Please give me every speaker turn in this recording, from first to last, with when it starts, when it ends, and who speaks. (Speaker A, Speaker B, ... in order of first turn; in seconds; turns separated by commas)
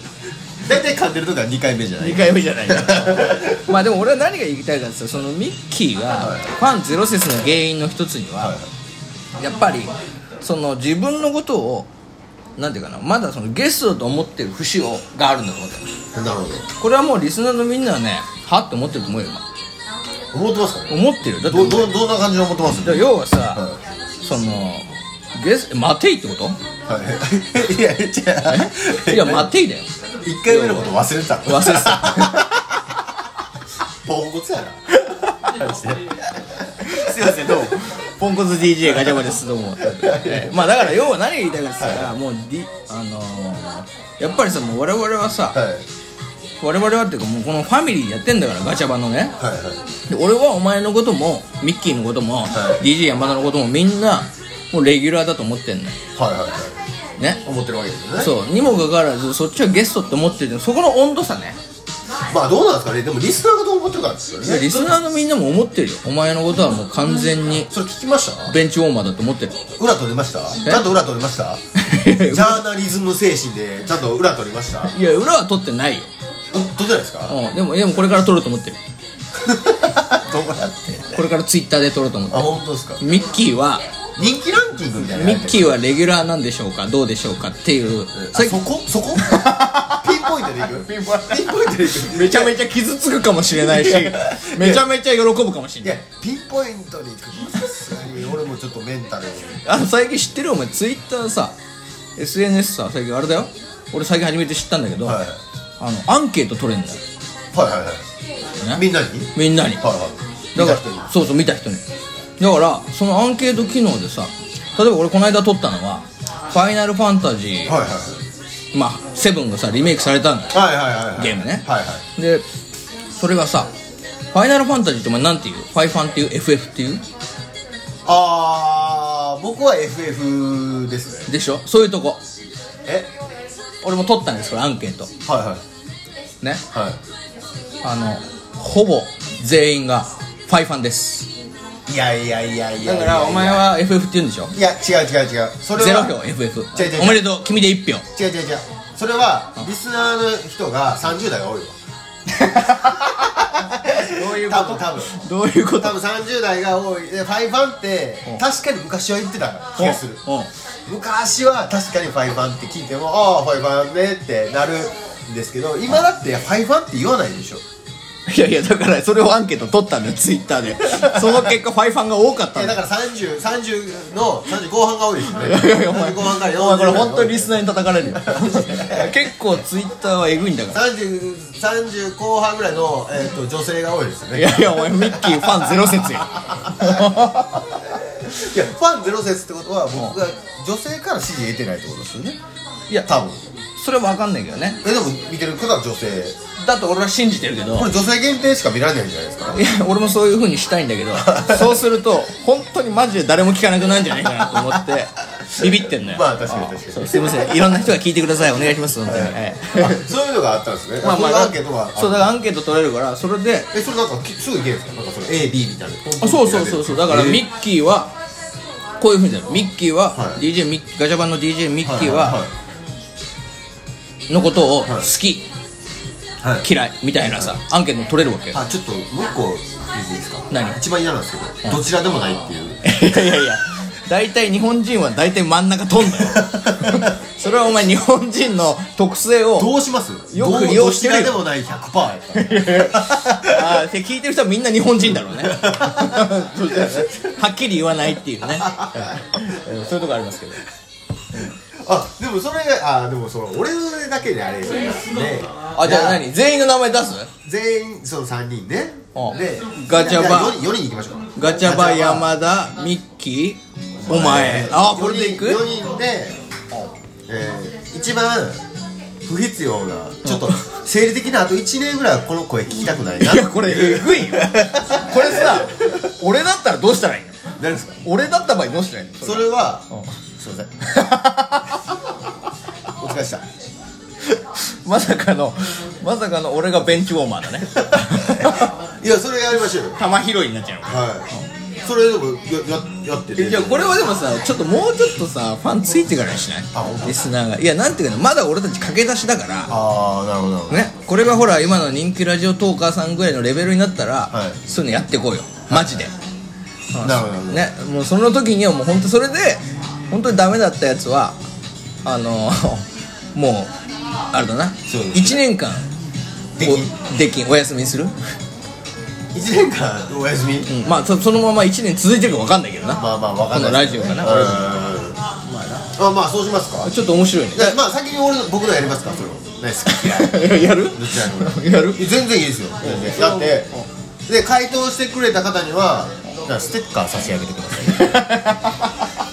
Speaker A: 0.6-3.7, Speaker B: 2.0-8.6, Speaker A: 6.2-6.5, Speaker A: 8.4-8.7, Speaker B: 9.4-11.9, Speaker B: 12.6-15.9, Speaker A: 16.1-16.7, Speaker B: 16.8-19.4, Speaker A: 20.3-23.8, Speaker B: 20.9-21.9, Speaker B: 22.8-23.6, Speaker B: 24.2-26.6, Speaker A: 26.9-29.5, Speaker B: 28.5-29.9, Speaker A: 30.2-32.6, Speaker B: 30.5-30.9, Speaker B: 31.5-32.5, Speaker A: 34.0-37.8, Speaker B: 36.8-45.6, Speaker A: 39.8-41.0, Speaker A: 41.8-42.1, Speaker A: 45.5-45.9, Speaker B: 46.6-49.4, Speaker A: 49.4-49.8, Speaker B: 50.1-56.0, Speaker A: 52.5-52.8, Speaker A: 56.2-56.8, Speaker B: 57.2-57.4, Speaker A: 57.4-58.3, Speaker B: 58.2-61.6, Speaker A: 62.3-65.0, Speaker B: 64.4-67.7, Speaker A: 67.7-68.6, Speaker B: 68.5-69.6, Speaker A: 69.8-71.6, Speaker B: 70.6-70.9, Speaker B: 71.8-72.6, Speaker A: 72.2-74.9, Speaker B: 74.9-76.1, Speaker A: 76.5-77.4, Speaker B: 77.3-78.8, Speaker A: 79.4-81.2, Speaker B: 81.1-83.8, Speaker A: 82.3-83.0, Speaker A: 84.2-85.8, Speaker B: 85.0-88.6, Speaker A: 88.1-92.6, Speaker B: 89.2-96.0, Speaker A: 93.6-94.9, Speaker A: 95.8-99.6, Speaker B: 99.7-101.6, Speaker B: 102.2-105.2, Speaker A: 105.0-105.4, Speaker B: 105.8-107.0, Speaker A: 107.5-108.0, Speaker A: 108.7-111.1, Speaker B: 109.4-109.8, Speaker B: 110.5-111.8, Speaker B: 112.4-117.8, Speaker A: 117.7-118.2, Speaker B: 118.7-120.6, Speaker A: 120.5-122.0, Speaker B: 121.2-122.5, Speaker B: 123.2-123.7, Speaker B: 124.3-127.0, Speaker A: 128.1-131.3, Speaker B: 131.3-132.2, Speaker B: 133.8-135.1, Speaker A: 135.2-135.6, Speaker A: 136.7-137.0, Speaker B: 137.8-141.3, Speaker A: 141.9-143.8, Speaker B: 142.8-144.5, Speaker A: 144.5-146.2, Speaker B: 145.8-148.1, Speaker A: 146.7-147.3, Speaker A: 148.1-151.8, Speaker B: 152.3-156.0, Speaker A: 152.5-155.2, Speaker A: 155.8-160.2, Speaker B: 159.8-160.5, Speaker A: 160.9-167.6, Speaker B: 168.3-172.8, Speaker A: 172.5-179.1, Speaker B: 175.4-180.8, Speaker A: 180.7-187.2, Speaker B: 184.3-187.7, Speaker A: 188.3-192.4, Speaker A: 193.1-193.4, Speaker B: 193.8-194.8, Speaker A: 194.8-196.4, Speaker B: 196.6-197.9, Speaker A: 197.7-199.6, Speaker B: 199.5-210.0, Speaker A: 201.2-201.8, Speaker A: 205.5-207.8, Speaker A: 209.0-212.3, Speaker B: 211.0-213.7, Speaker A: 213.7-217.5, Speaker B: 216.2-218.1, Speaker B: 219.0-222.4, Speaker A: 220.1-220.4, Speaker A: 221.8-222.5, Speaker B: 224.3-225.5, Speaker B: 226.6-228.6, Speaker A: 228.5-233.4, Speaker B: 230.5-230.8, Speaker B: 232.8-239.7, Speaker A: 236.1-237.1, Speaker A: 239.6-243.8, Speaker B: 240.3-241.4, Speaker B: 242.3-250.6, Speaker A: 245.4-246.3, Speaker A: 248.5-249.2, Speaker A: 251.8-256.3, Speaker B: 255.7-257.3, Speaker A: 257.4-262.3, Speaker B: 259.1-260.6, Speaker B: 261.4-265.6, Speaker A: 264.0-266.4, Speaker A: 267.3-268.6, Speaker A: 269.2-275.7, Speaker B: 273.2-277.3, Speaker A: 277.6-278.0, Speaker B: 278.0-280.1, Speaker A: 279.2-280.7, Speaker B: 280.8-281.8, Speaker A: 283.0-283.4, Speaker B: 284.3-288.7, Speaker A: 288.0-290.0, Speaker B: 290.0-291.4, Speaker A: 290.9-294.0, Speaker B: 293.4-299.7, Speaker A: 296.7-297.2, Speaker A: 299.7-300.9, Speaker B: 300.7-306.1, Speaker A: 304.3-304.6, Speaker A: 305.7-306.1, Speaker B: 306.9-311.4, Speaker A: 307.0-307.7, Speaker B: 312.0-313.7, Speaker B: 314.3-315.9, Speaker A: 314.9-315.4, Speaker A: 316.6-316.9, Speaker B: 316.6-318.2, Speaker A: 319.3-320.9, Speaker B: 320.7-324.9, Speaker A: 323.0-325.2, Speaker B: 325.4-325.9, Speaker A: 325.9-326.9, Speaker B: 326.8-327.8, Speaker A: 327.6-333.7, Speaker B: 329.9-332.1, Speaker B: 332.8-333.9, Speaker A: 334.3-338.1, Speaker B: 337.9-339.0